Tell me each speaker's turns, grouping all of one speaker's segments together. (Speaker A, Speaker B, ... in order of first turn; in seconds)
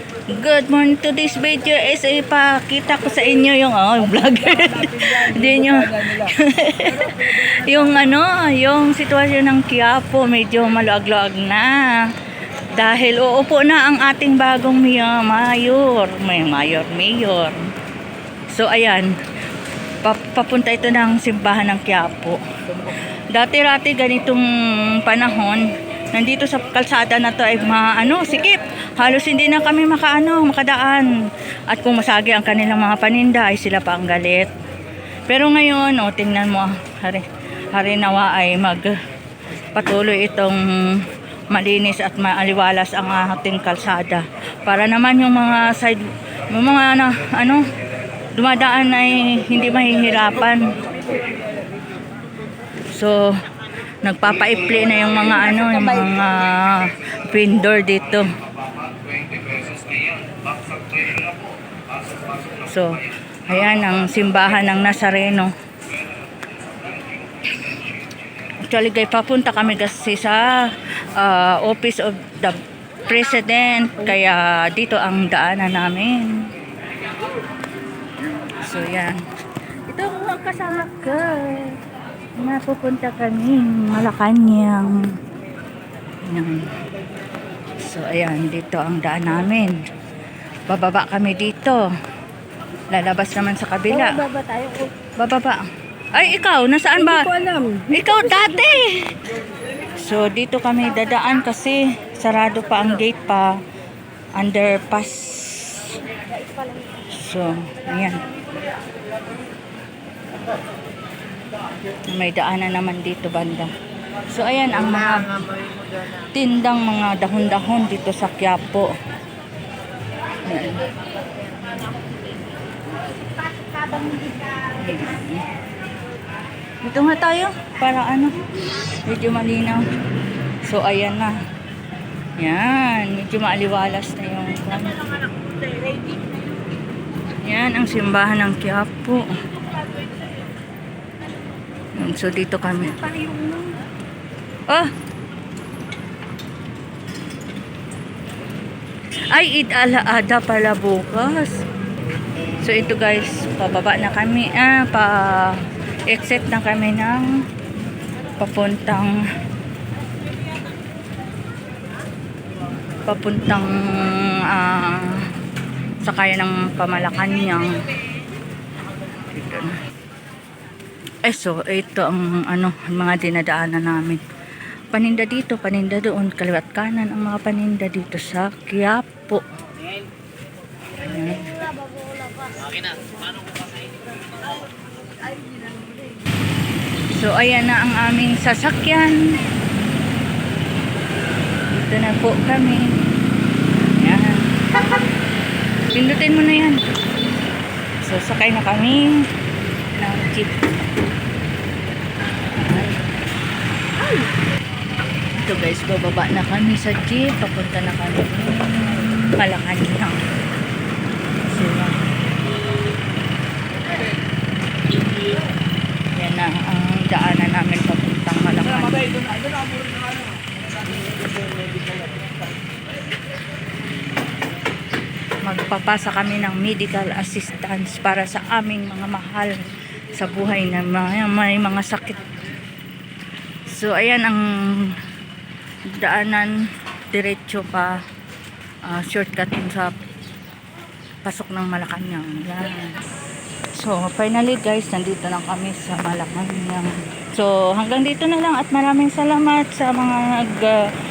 Speaker A: 0.3-12.1, 12.7-17.7, 18.5-19.1, 20.0-31.1, 31.7-34.5, 35.3-38.9, 39.7-47.6, 48.4-50.8, 52.9-53.4, 54.0-58.3, 62.6-62.9, 63.5-65.5, 68.6-76.5, 78.5-79.2, 79.9-81.8, 82.4-85.1, 86.2-86.7, 87.8-89.8, 90.7-91.8, 92.9-94.2, 95.2-95.6, 96.1-97.3, 97.9-99.1, 100.0-103.5, 104.4-106.0, 107.1-108.2, 112.1-113.7, 114.3-115.4, 116.2-118.9, 120.5-120.9, 124.7-125.5, 126.8-128.4, 129.0-129.9, 130.7-131.3, 132.4-135.0, 137.4-139.3, 142.0-143.1, 149.3-151.6, 152.6-157.3, 158.4-159.1, 163.1-165.3, 166.0-167.8, 169.3-169.8, 171.2-174.2, 174.9-179.4, 181.0-181.6, 187.2-189.2, 191.7-192.9, 194.0-194.4, 195.9-196.8, 198.1-199.2, 200.0-200.6, 202.5-203.0, 205.3-210.2, 211.4-212.1, 216.2-219.1, 225.4-229.6, 230.2-232.2, 233.7-235.0, 235.9-236.5, 237.1-238.0, 238.9-240.0, 241.2-242.9, 243.8-250.9
Speaker B: 4.4-6.3, 7.0-7.7, 94.0-94.9, 97.1-98.0, 106.4-107.0, 143.0-143.8